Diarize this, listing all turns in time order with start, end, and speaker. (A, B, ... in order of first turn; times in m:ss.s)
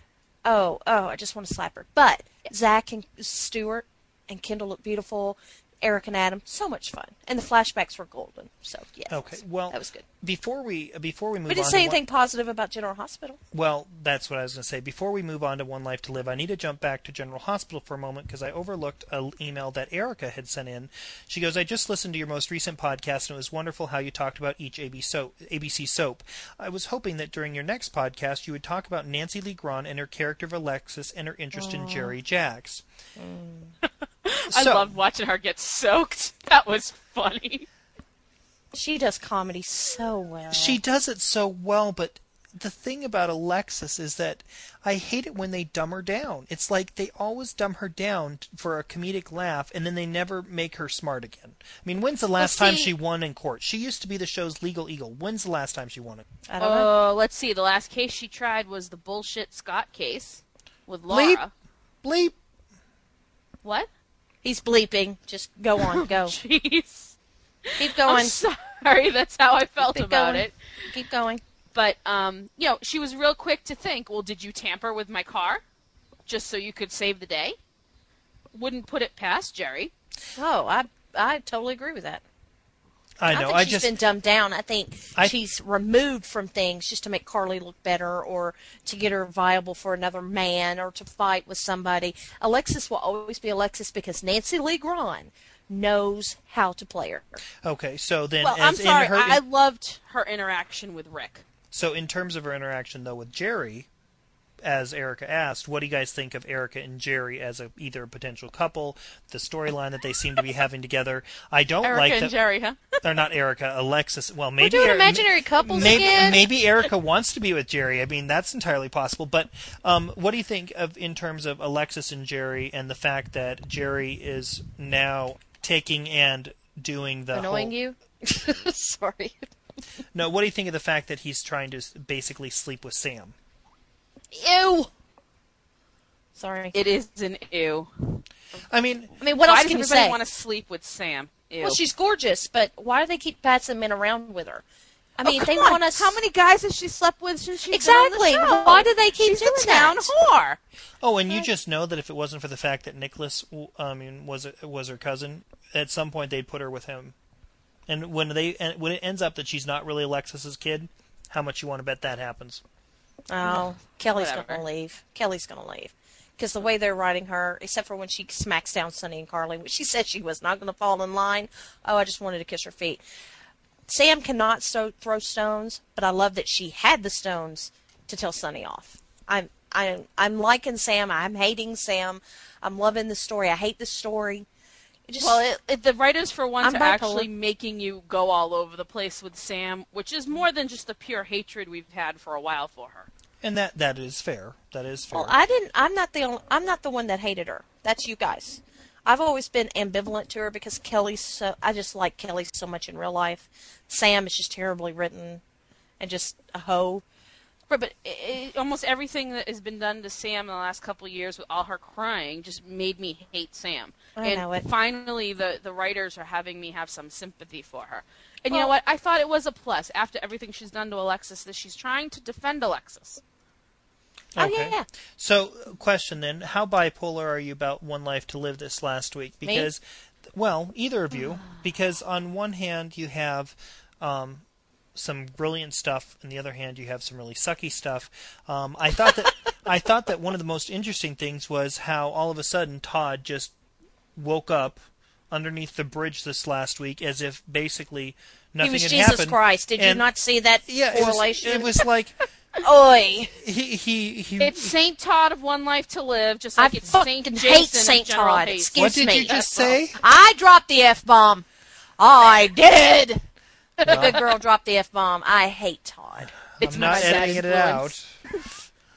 0:00.4-0:10.1 A
0:09.1-0:12.0 B
0:11.5-0:13.4 A
0:13.5-0:32.8 B
0:31.6-0:32.1 A
0:33.2-0:33.7 A
0:34.2-0:37.7 C
0:34.5-0:35.0 B
0:38.7-0:40.8 A
0:40.5-0:56.2 B
0:52.4-0:52.9 C
0:56.5-0:56.9 A
0:56.6-1:01.5 C
1:01.1-1:01.4 B
1:02.0-1:02.4 B
1:03.6-1:03.9 C
1:04.4-1:06.4 A
1:05.8-1:07.2 C
1:07.7-1:10.6 C
1:07.8-1:08.4 A
1:09.8-1:11.4 A
1:11.7-1:15.6 C
1:16.3-1:17.6 C
1:18.5-1:19.9 C
1:20.4-1:22.2 A
1:23.2-1:23.9 B
1:23.3-1:37.4 A
1:37.6-1:39.4 B
1:38.4-1:41.4 C
1:41.7-1:43.9 B
1:44.6-1:52.3 B
1:51.8-1:53.0 C
1:53.0-2:07.7 B
1:54.6-1:56.5 A
2:07.3-2:09.5 A
2:10.1-2:13.4 B
2:14.3-2:14.9 A
2:16.4-2:16.8 A
2:16.7-2:18.2 C
2:18.7-2:19.1 B
2:19.2-2:20.2 A
2:19.4-2:21.8 C
2:21.6-2:24.6 A
2:25.2-2:26.2 A
2:25.2-2:30.6 C
2:27.7-2:30.1 A
2:31.0-2:37.2 B
2:37.9-2:42.6 B
2:43.3-2:53.0 A
2:43.4-2:44.6 C
2:53.9-3:04.5 A
3:05.1-3:05.4 A
3:05.2-3:13.1 C
3:06.6-3:07.3 A
3:13.4-3:15.3 B
3:15.1-3:25.4 A
3:26.0-3:27.0 A
3:27.7-3:43.2 C
3:34.2-3:34.7 A
3:44.4-3:49.8 B
3:44.4-3:44.9 A
3:49.4-3:49.7 A
3:50.3-3:54.4 B
3:55.0-4:03.5 B
4:04.2-4:10.0 B
4:08.6-4:11.8 A
4:10.7-4:12.2 B
4:12.6-4:13.4 A
4:13.4-4:14.7 B
4:14.4-4:19.8 C
4:16.6-4:19.4 A
4:18.8-4:20.0 B
4:19.9-4:21.5 A
4:22.0-4:23.2 A
4:23.8-4:28.0 A
4:23.9-4:24.2 B
4:26.6-4:28.1 B
4:26.7-4:27.5 C